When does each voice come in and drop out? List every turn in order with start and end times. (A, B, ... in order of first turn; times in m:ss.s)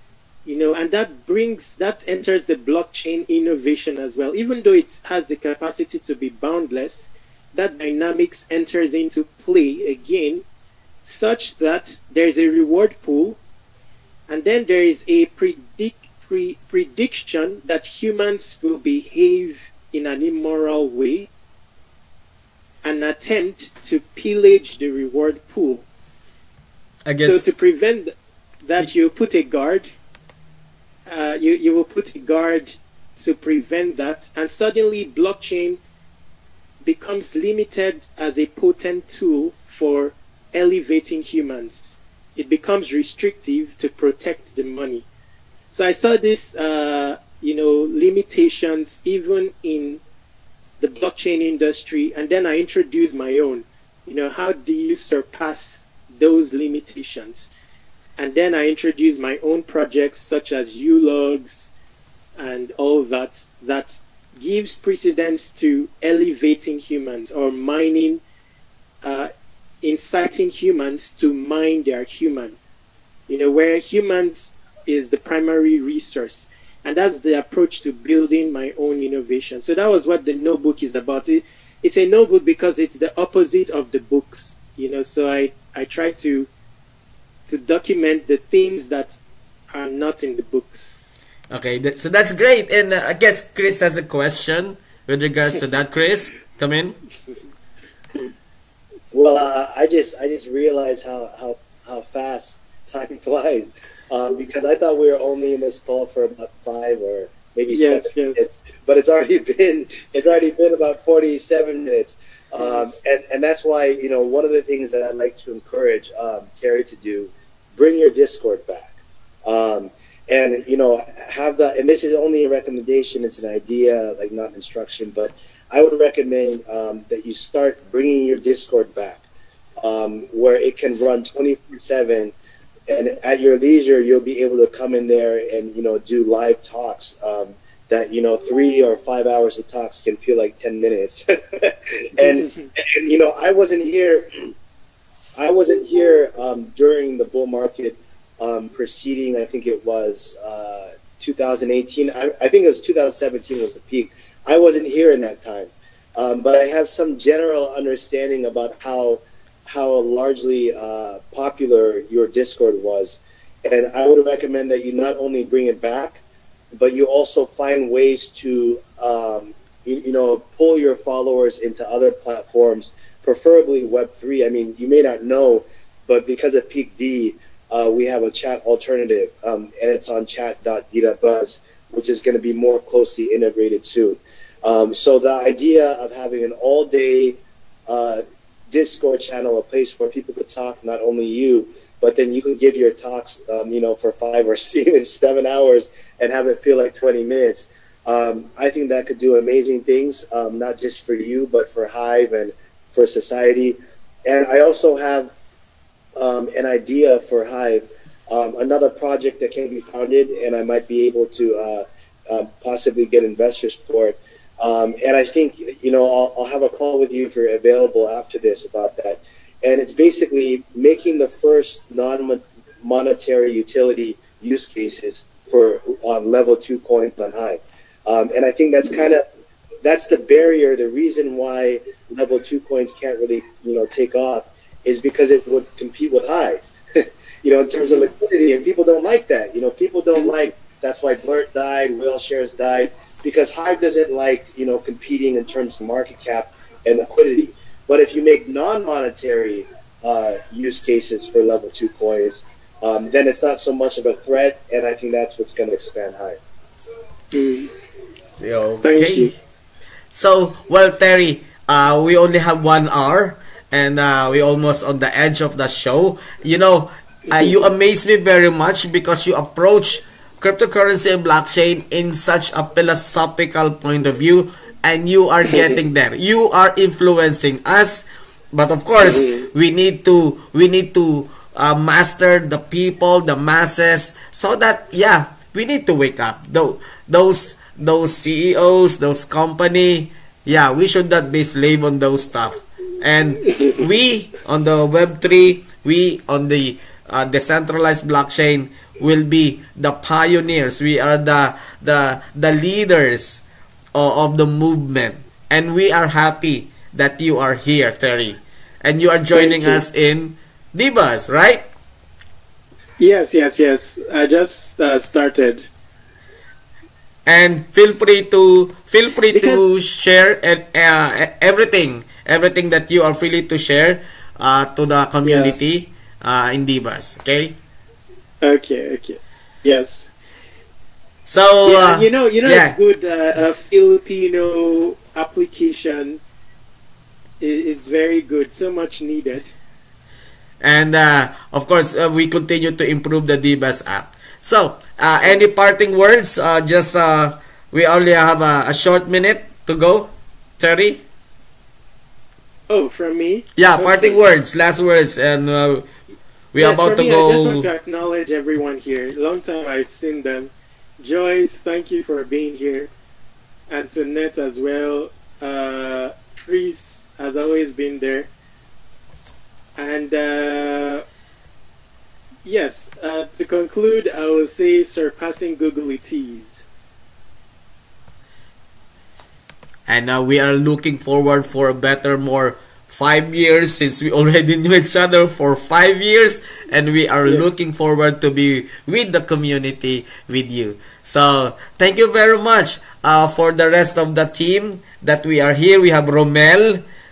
0:00.4-0:10.4 A
0:11.0-0:13.4 A
0:14.3-0:21.3 A
0:22.8-0:25.8 A
0:27.0-0:27.4 B
0:27.2-0:29.9 A
0:31.1-0:35.8 A
0:36.8-0:45.0 A
0:45.7-0:50.0 A
0:50.8-0:57.5 A
0:58.2-1:01.7 A
1:02.4-1:08.2 A
1:09.0-1:09.3 A
1:09.8-1:12.6 A
1:13.3-1:26.5 A
1:27.5-1:29.2 A
1:29.7-1:31.0 A
1:31.5-1:37.0 B
1:39.1-2:09.2 C
1:47.7-1:48.4 A
1:52.6-1:52.9 A
2:09.8-2:12.3 C
2:12.9-2:24.5 C
2:22.2-2:22.7 A
2:25.4-2:46.2 C
2:46.7-3:25.3 C
3:26.2-3:49.2 C
3:49.8-4:16.4 C
4:17.3-4:17.7 A
4:18.4-4:19.3 B
4:18.8-4:19.3 A
4:20.1-5:03.4 B
4:39.0-4:39.5 A
5:03.9-5:11.6 B
5:09.3-5:09.8 A
5:13.0-5:15.7 A
5:17.2-5:27.6 B
5:19.3-5:19.6 A
5:25.2-5:25.6 A
5:28.4-5:30.1 A
5:31.2-5:32.8 B
5:31.6-5:36.2 A
5:37.4-5:39.5 A
5:40.6-5:51.0 B
5:52.7-5:54.2 A
5:53.6-5:55.9 B
5:56.5-5:57.7 B
5:56.6-6:02.9 A
6:03.7-6:08.3 A
6:09.8-6:11.0 A
6:12.4-6:16.6 A
6:19.9-6:36.8 B
6:27.2-6:27.5 A